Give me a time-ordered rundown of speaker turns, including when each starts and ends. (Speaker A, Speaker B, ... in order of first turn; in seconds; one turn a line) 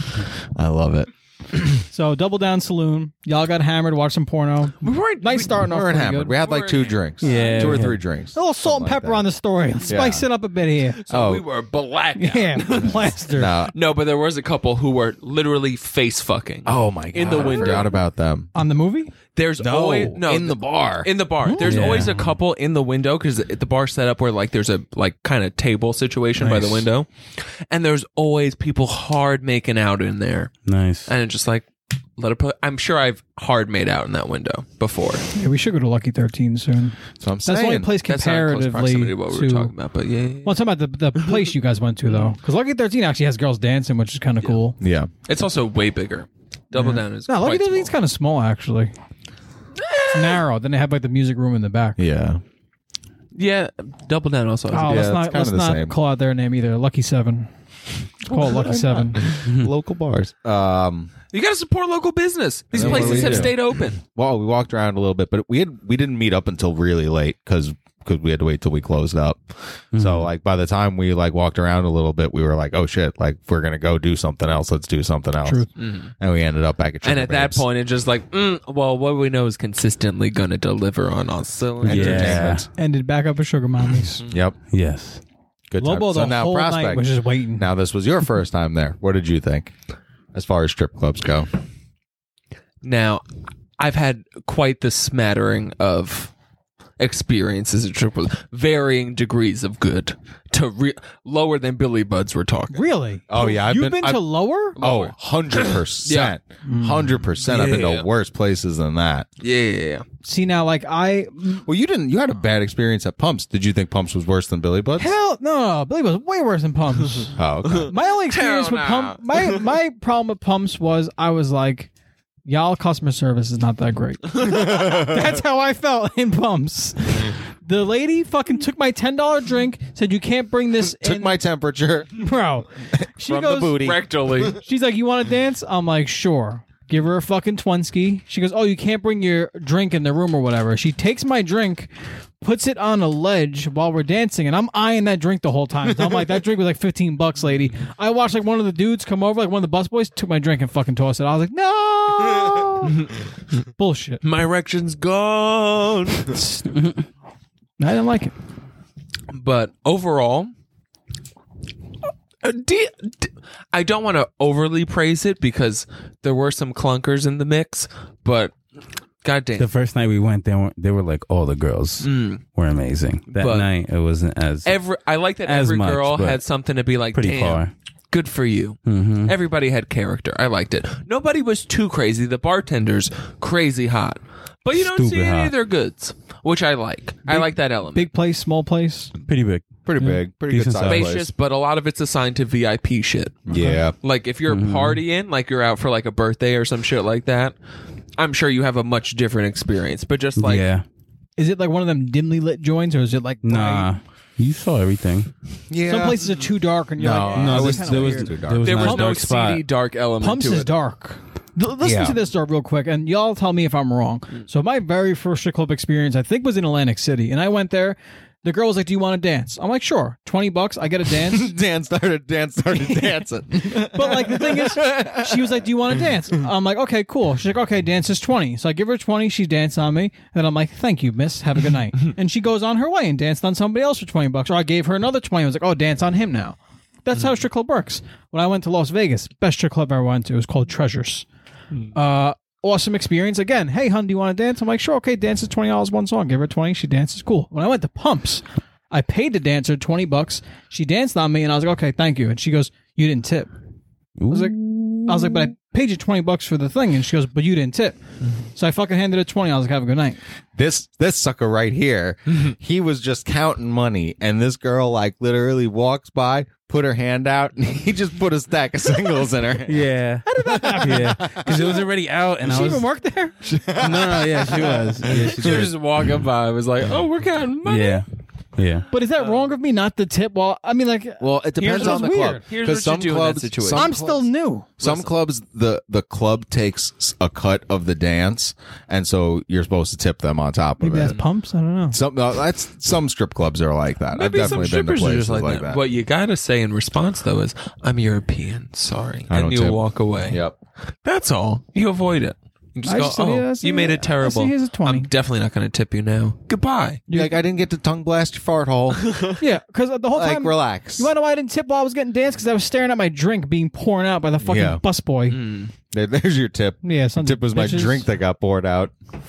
Speaker A: 0.5-1.8
Speaker B: 1.9-6.4
Speaker C: 4.8-5.7
Speaker A: 5.5-9.3
Speaker C: 6.3-7.8
Speaker D: 7.2-8.0
Speaker B: 8.3-11.0
Speaker A: 9.8-10.2
Speaker C: 11.0-17.9
Speaker A: 11.1-11.4
Speaker B: 12.2-13.5
Speaker A: 13.3-13.7
Speaker A: 16.6-18.5
Speaker B: 18.5-19.1
Speaker C: 19.4-30.5
Speaker A: 19.6-21.1
Speaker B: 21.4-22.1
Speaker D: 21.6-22.3
Speaker B: 26.4-26.9
Speaker D: 30.6-31.1
Speaker C: 31.1-35.3
Speaker B: 35.3-39.7
Speaker A: 37.2-37.9
Speaker C: 38.0-40.6
Speaker B: 40.4-44.8
Speaker A: 44.8-45.1
Speaker C: 45.2-47.9
Speaker B: 46.7-48.9
Speaker C: 49.8-50.4
Speaker B: 50.1-52.0
Speaker A: 52.0-52.4
Speaker C: 53.3-55.1
Speaker B: 54.7-57.5
Speaker A: 54.9-55.9
Speaker B: 58.2-59.2
Speaker A: 58.3-61.1
Speaker D: 59.5-59.7
Speaker C: 61.3-64.0
Speaker A: 62.7-75.7
Speaker B: 62.8-63.5
Speaker D: 69.9-70.3
Speaker C: 75.8-76.1
Speaker A: 76.2-77.6
Speaker C: 77.0-82.6
Speaker D: 81.8-82.7
Speaker A: 81.8-82.7
Speaker B: 82.7-84.2
Speaker A: 84.3-84.5
Speaker D: 84.7-85.2
Speaker A: 85.7-89.7
Speaker B: 85.8-87.7
Speaker A: 90.3-91.5
Speaker C: 92.8-93.2
Speaker C: 93.8-96.3
Speaker C: 97.0-102.8
Speaker B: 102.7-104.8
Speaker A: 103.3-104.2
Speaker A: 104.8-109.3
Speaker C: 104.8-106.3
Speaker B: 106.6-107.1
Speaker C: 107.4-108.1
Speaker C: 109.4-110.0
Speaker B: 110.2-111.7
Speaker A: 111.7-115.1
Speaker B: 115.0-121.9
Speaker A: 117.3-117.9
Speaker C: 117.8-119.6
Speaker B: 122.4-131.4
Speaker A: 124.6-125.2
Speaker A: 130.9-132.1
Speaker B: 132.2-133.9
Speaker A: 133.0-134.1
Speaker C: 133.6-134.6
Speaker B: 134.5-153.0
Speaker C: 152.8-153.1
Speaker B: 153.8-154.2
Speaker C: 154.2-156.4
Speaker B: 156.3-156.8
Speaker B: 157.8-158.3
Speaker C: 159.3-160.5
Speaker C: 162.4-168.5
Speaker C: 169.2-169.7
Speaker D: 169.6-174.8
Speaker C: 172.0-172.4
Speaker C: 173.3-173.7
Speaker C: 174.6-188.1
Speaker D: 175.4-176.4
Speaker D: 177.1-177.7
Speaker D: 178.9-179.3
Speaker D: 184.7-185.5
Speaker B: 187.3-189.1
Speaker D: 189.2-191.2
Speaker A: 189.8-191.3
Speaker C: 190.8-193.4
Speaker A: 193.4-193.9
Speaker B: 193.5-193.8
Speaker C: 194.0-197.5
Speaker D: 194.5-195.0
Speaker C: 198.2-200.6
Speaker D: 200.3-200.8
Speaker B: 201.4-203.9
Speaker D: 203.4-205.3
Speaker A: 205.7-206.2
Speaker B: 205.8-209.2
Speaker A: 207.0-208.8
Speaker D: 207.3-209.6
Speaker C: 208.6-210.7
Speaker B: 210.2-221.5
Speaker A: 211.8-212.2
Speaker A: 221.2-226.2
Speaker B: 222.7-241.3
Speaker B: 241.9-253.5
Speaker D: 254.2-255.5
Speaker B: 254.3-258.0
Speaker B: 258.5-260.2
Speaker A: 260.6-271.7
Speaker D: 269.6-272.9
Speaker B: 270.2-271.8
Speaker B: 272.4-273.5
Speaker A: 273.4-275.7
Speaker D: 273.8-275.7
Speaker C: 275.1-278.0
Speaker D: 277.6-278.0
Speaker D: 278.6-278.9
Speaker B: 278.9-282.4
Speaker A: 281.2-284.2
Speaker C: 281.6-283.9
Speaker B: 283.7-284.7
Speaker A: 284.8-291.2
Speaker C: 284.8-285.1
Speaker B: 290.8-292.0
Speaker A: 291.9-295.8
Speaker C: 294.1-300.4
Speaker A: 299.3-300.6
Speaker C: 301.0-307.0
Speaker B: 302.8-305.1
Speaker A: 307.1-309.1
Speaker B: 307.1-307.4
Speaker C: 309.0-309.3
Speaker B: 309.4-315.4
Speaker A: 310.1-311.1
Speaker A: 314.4-314.8
Speaker C: 315.3-315.7
Speaker A: 315.9-318.9
Speaker B: 316.8-318.1